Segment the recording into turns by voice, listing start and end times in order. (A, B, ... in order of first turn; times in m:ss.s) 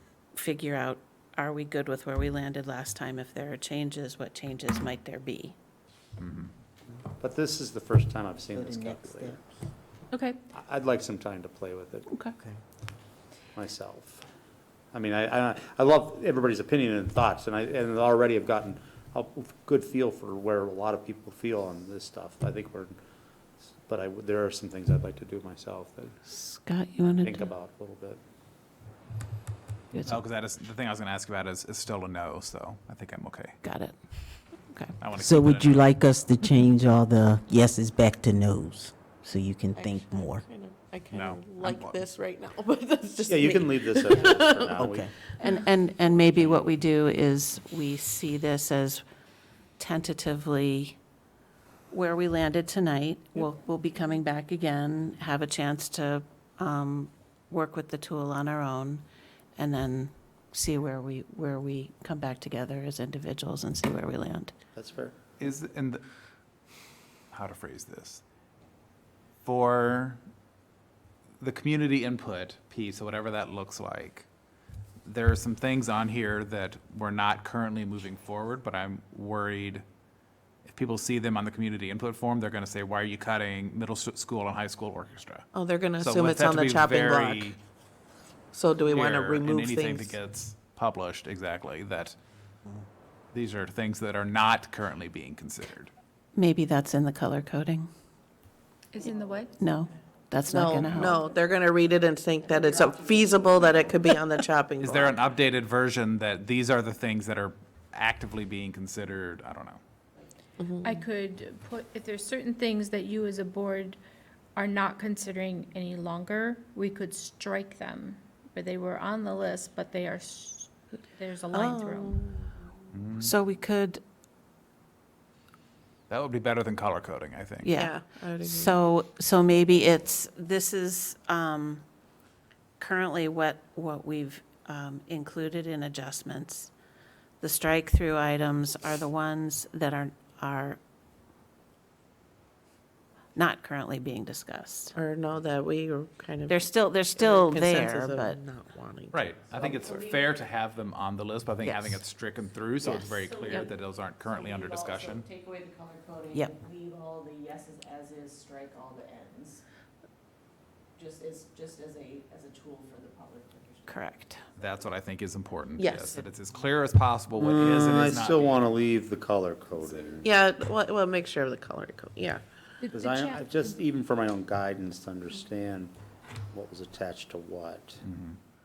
0:00.4-0:05.5 A
0:06.2-0:06.5 B
0:07.2-0:09.4 C
0:08.5-0:09.5 D
0:10.1-0:10.4 E
0:10.5-0:12.1 C
0:12.1-0:12.3 A
0:13.5-0:14.2 C
0:14.9-0:23.0 C
0:23.7-0:26.2 C
0:26.3-0:27.5 A
0:27.2-0:28.2 C
0:29.9-0:30.2 A
0:30.0-0:33.6 B
0:33.6-0:34.0 A
0:34.7-0:34.9 A
0:35.0-0:36.0 B
0:35.2-0:40.4 D
0:39.8-0:44.7 F
0:41.1-0:42.0 B
0:43.3-0:45.1 C
0:44.8-0:45.1 D
0:45.4-0:49.0 A
0:49.8-0:51.0 A
0:51.9-0:59.0 A
0:59.6-1:04.5 A
1:04.8-1:05.2 C
1:05.4-1:06.0 B
1:07.3-1:08.2 B
1:09.4-1:10.2 B
1:11.4-1:14.3 B
1:15.0-1:19.8 B
1:20.6-1:25.4 B
1:25.5-1:27.5 F
1:26.0-1:27.6 B
1:28.5-1:30.2 F
1:28.9-1:32.2 B
1:33.3-1:35.9 B
1:36.3-1:37.9 A
1:38.9-1:39.6 E
1:39.0-1:40.5 G
1:39.6-1:41.2 A
1:40.5-1:45.2 F
1:40.8-1:41.1 B
1:41.1-1:44.1 G
1:44.8-1:49.8 B
1:50.6-1:51.0 F
1:50.8-1:54.0 E
1:54.6-2:02.3 E
2:01.5-2:02.7 F
2:02.9-2:03.3 B
2:03.2-2:04.0 A
2:06.1-2:07.7 B
2:07.6-2:11.8 A
2:07.7-2:08.8 F
2:12.8-2:16.7 A
2:17.4-2:20.8 A
2:23.3-2:24.9 A
2:24.9-2:29.3 F
2:26.5-2:28.4 A
2:29.1-2:35.2 B
2:29.4-2:30.4 G
2:31.6-2:32.0 A
2:32.8-2:39.6 G
2:41.0-2:44.8 G
2:43.9-2:44.4 A
2:44.6-2:48.6 B
2:45.8-2:46.2 F
2:47.4-2:50.3 C
2:50.2-2:52.4 F
2:52.8-2:53.4 E
2:52.9-2:55.9 C
2:56.5-2:58.0 C
2:58.0-2:58.4 B